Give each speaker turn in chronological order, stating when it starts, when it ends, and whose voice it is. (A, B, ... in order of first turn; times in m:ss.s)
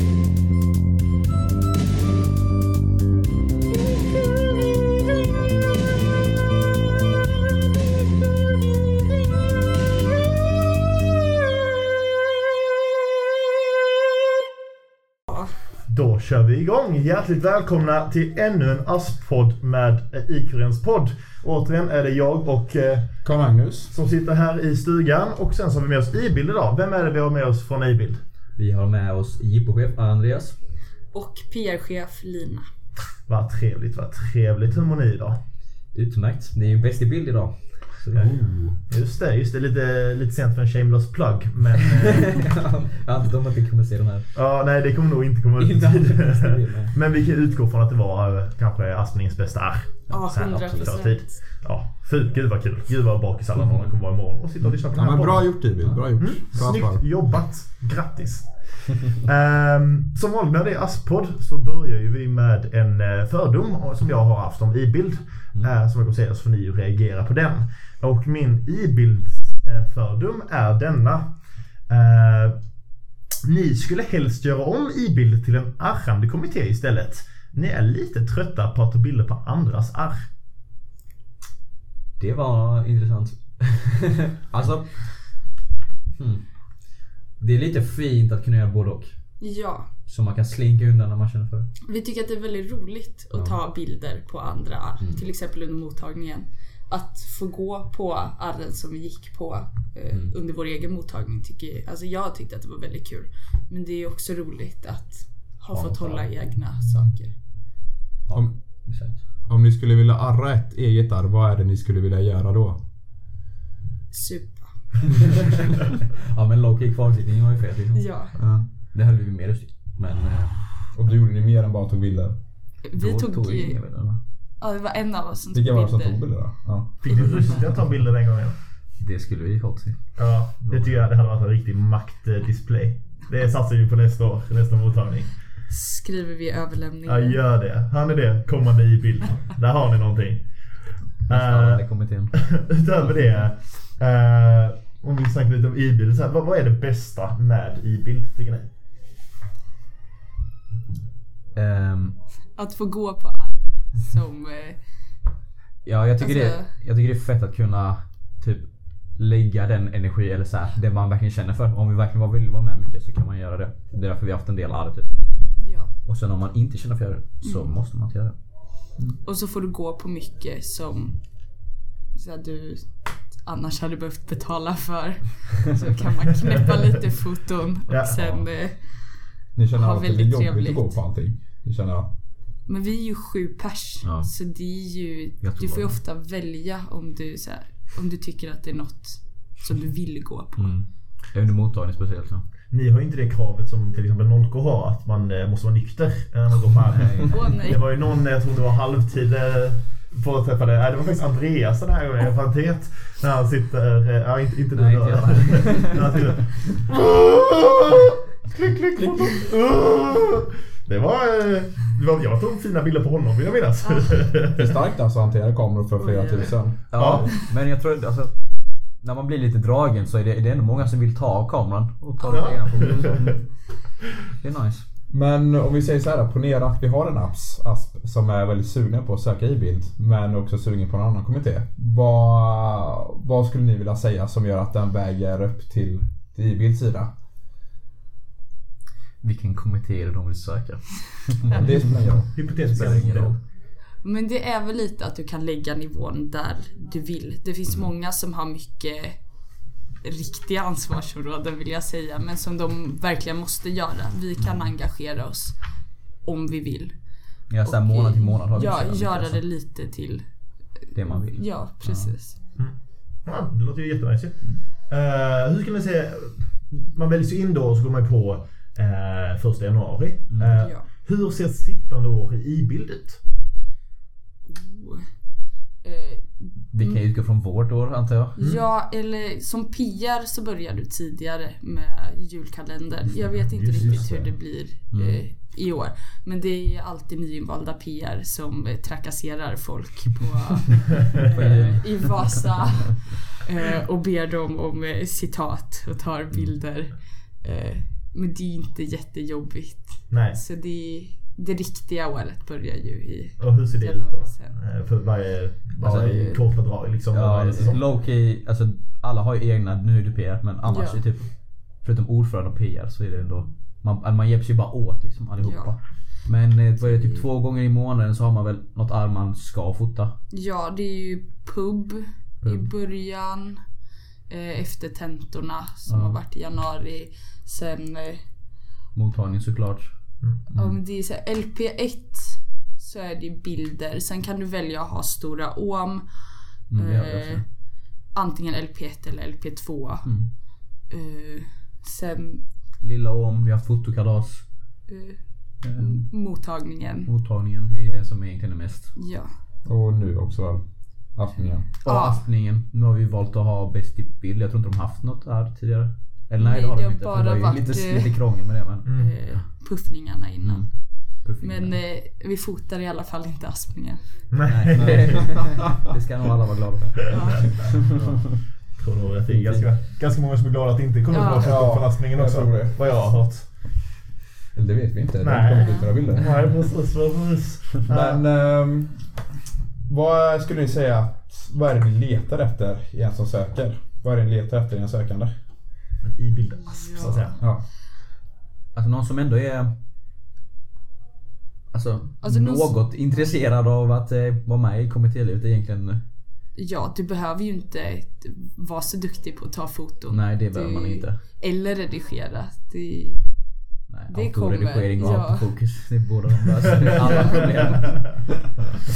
0:15.9-0:23.2 A
0:23.2-0:23.9 B
0:23.9-0:28.2 A
0:28.6-0:30.6 C
0:31.1-0:32.6 D
0:33.2-0:35.4 A
0:35.9-0:38.4 C
0:38.1-0:42.6 A
0:38.3-0:38.8 B
0:41.8-0:44.3 C
0:44.3-1:12.6 A
0:45.6-0:46.9 C
0:50.1-0:51.0 C
0:50.1-0:51.4 D
0:53.6-0:53.9 C
0:54.9-0:57.2 B
0:55.8-0:56.0 C
1:13.4-1:20.3 A
1:22.2-1:25.4 C
1:26.2-1:26.4 C
1:27.4-1:29.3 C
1:29.4-1:29.9 D
1:30.0-1:31.7 C
1:31.8-1:47.4 D
1:33.3-1:33.6 C
1:45.7-1:46.3 C
1:48.3-1:49.2 C
1:49.4-1:52.8 B
1:54.1-1:54.8 D
1:55.7-2:00.6 C
1:57.9-1:58.4 D
1:58.4-1:58.6 B
2:00.9-2:02.4 B
2:02.8-2:03.9 D
2:02.9-2:04.2 C
2:04.6-2:07.6 D
2:05.5-2:07.4 B
2:07.0-2:08.6 A
2:09.0-2:11.0 C
2:10.2-2:15.3 A
2:15.7-2:17.4 D
2:17.0-2:20.5 A
2:21.2-2:28.7 A
2:21.3-2:22.3 C
2:31.5-2:32.2 C
2:32.5-2:34.9 D
2:35.8-2:48.3 C
2:36.2-2:36.7 D
2:45.6-2:45.9 D
2:47.4-2:47.7 D
2:49.2-3:01.0 D
2:57.9-2:58.4 A
2:59.5-3:02.1 B
3:02.6-3:10.8 D
3:04.0-3:04.3 C
3:05.4-3:06.0 C
3:10.6-3:12.4 C
3:12.7-3:34.7 A
3:16.8-3:17.5 C
3:17.3-3:17.8 D
3:24.7-3:26.3 C
3:33.8-3:34.2 D
3:34.6-3:37.3 B
3:35.9-3:37.3 D
3:36.9-3:38.4 C
3:36.9-3:37.3 A
3:39.0-3:43.7 C
3:42.2-3:43.0 D
3:42.3-3:43.3 A
3:44.4-3:44.8 C
3:45.1-3:57.1 B
3:59.2-4:01.8 C
4:01.5-4:03.0 B
4:02.3-4:03.4 A
4:02.7-4:03.4 C
4:04.0-4:09.2 D
4:10.0-4:22.4 D
4:14.4-4:14.7 C
4:17.5-4:19.4 C
4:20.9-4:22.2 C
4:22.6-4:33.2 A
4:30.3-4:30.7 C
4:30.6-4:30.9 D
4:34.4-4:35.1 D
4:35.8-4:37.0 D
4:36.7-4:38.4 C
4:38.4-5:04.6 D
4:38.4-4:38.6 A
4:43.3-4:44.4 A
4:44.9-4:45.2 C
4:51.2-4:52.6 C
5:00.1-5:00.4 A
5:03.4-5:07.8 A
5:05.8-5:06.2 C
5:06.0-5:06.5 D
5:07.1-5:20.1 C
5:10.6-5:11.0 D
5:15.4-5:16.1 D
5:16.8-5:17.2 D
5:20.3-5:23.6 D
5:22.4-5:22.7 C
5:24.3-5:28.2 D
5:25.9-5:26.2 C
5:28.9-5:30.0 C
5:30.5-5:30.8 B
5:30.5-5:42.5 D
5:36.7-5:37.4 C
5:40.0-5:40.3 C
5:42.8-5:44.8 C
5:44.9-5:47.1 D
5:45.6-5:46.3 C
5:47.0-5:48.9 C
5:49.0-5:49.3 D
5:49.6-5:51.7 B
5:51.8-5:59.4 C
5:51.8-5:52.2 D
5:56.4-6:04.0 D
5:58.8-5:59.1 A
6:00.4-6:01.8 C
6:04.3-6:05.4 A
6:04.4-6:08.1 C
6:07.1-6:07.7 D
6:07.8-6:13.6 A
6:09.3-6:09.7 C
6:11.1-6:11.7 D
6:11.4-6:12.8 B
6:14.5-6:16.5 B
6:15.2-6:18.2 A
6:15.6-6:15.9 D
6:17.9-6:19.3 B
6:19.9-6:25.4 B
6:26.0-6:27.4 A
6:26.6-6:27.4 D
6:27.4-6:27.6 B
6:28.7-6:29.7 C
6:31.7-6:36.0 C
6:32.2-6:32.8 D
6:36.5-6:43.5 D
6:40.1-6:41.2 C
6:43.9-6:48.3 C
6:44.1-6:45.7 D
6:47.0-6:47.4 D